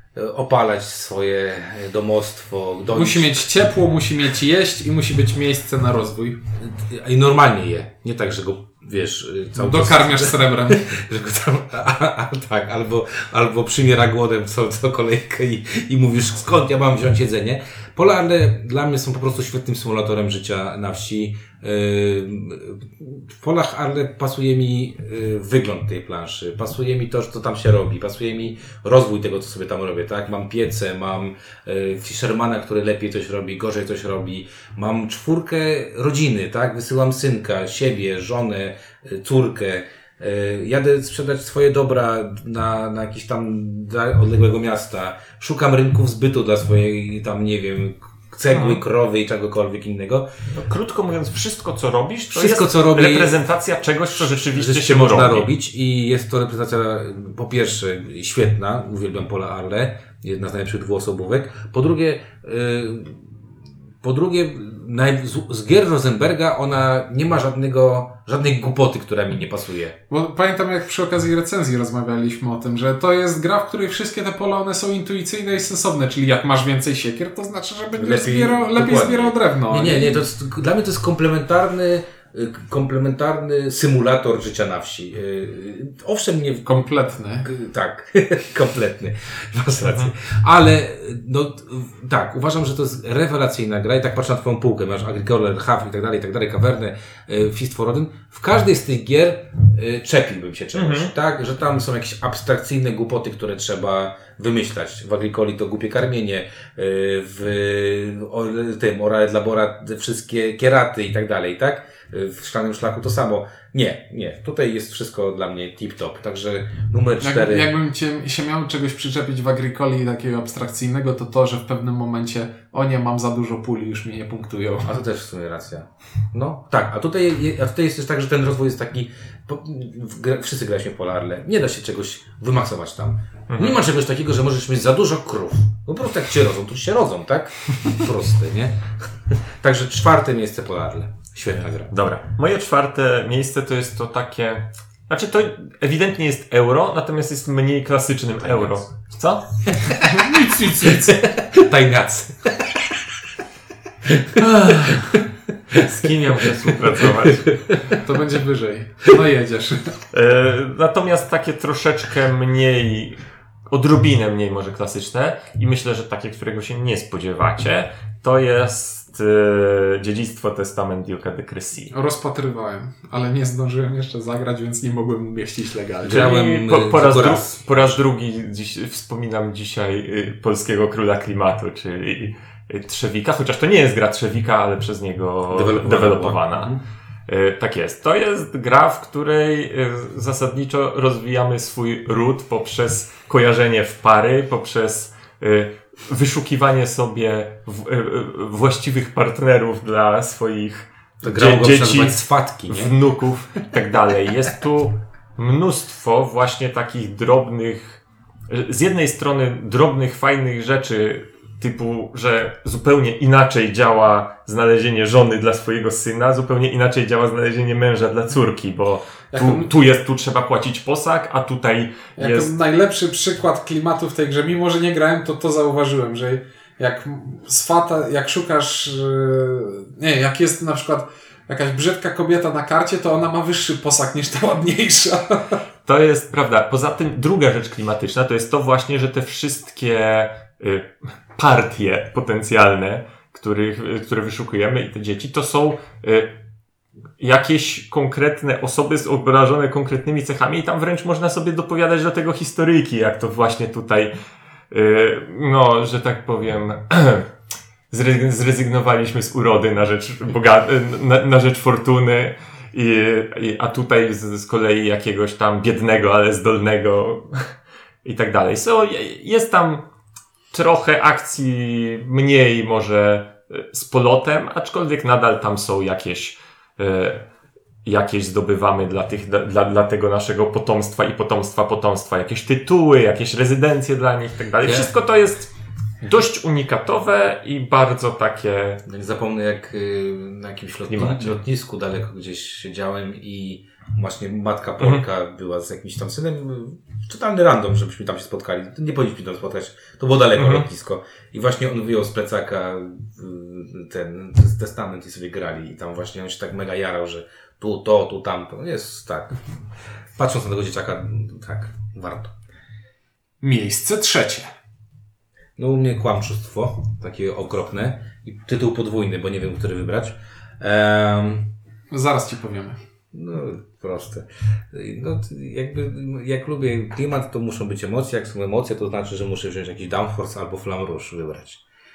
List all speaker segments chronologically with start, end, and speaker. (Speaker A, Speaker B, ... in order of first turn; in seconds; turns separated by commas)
Speaker A: 0.1-3.4, Speaker B: 2.9-6.4, Speaker A: 6.6-50.3, Speaker B: 9.6-10.9, Speaker C: 48.5-48.8, Speaker C: 50.5-55.5, Speaker A: 52.3-53.4, Speaker A: 54.1-63.3, Speaker A: 64.0-70.0, Speaker B: 70.1-80.3, Speaker A: 77.9-86.9, Speaker B: 86.7-87.5, Speaker A: 87.4-117.7, Speaker C: 89.8-90.1, Speaker C: 100.7-101.1, Speaker B: 117.2-125.0, Speaker A: 124.8-141.9, Speaker C: 133.5-133.8, Speaker C: 141.9-149.5, Speaker A: 148.5-148.8, Speaker A: 149.7-152.8, Speaker B: 150.0-151.2, Speaker A: 154.0-155.0, Speaker C: 154.4-155.2, Speaker A: 155.7-156.1, Speaker C: 155.7-157.6, Speaker A: 156.7-158.0, Speaker B: 157.9-159.9, Speaker C: 160.1-171.9, Speaker B: 171.9-176.3, Speaker A: 176.0-178.0, Speaker C: 176.1-186.7, Speaker A: 185.5-186.8, Speaker C: 187.3-222.5, Speaker A: 201.2-202.9, Speaker B: 219.3-219.7, Speaker B: 222.2-235.6, Speaker C: 235.8-246.3, Speaker C: 247.2-254.1, Speaker C: 254.7-257.3, Speaker C: 257.9-267.5, Speaker C: 268.0-269.8, Speaker C: 270.5-277.2, Speaker C: 277.8-285.5, Speaker A: 284.6-284.9, Speaker C: 286.0-288.8, Speaker A: 288.9-309.5, Speaker C: 290.9-291.4, Speaker C: 300.3-300.7, Speaker A: 310.1-312.3, Speaker B: 313.4-314.5, Speaker A: 315.6-321.5, Speaker B: 321.9-322.8, Speaker A: 323.1-331.6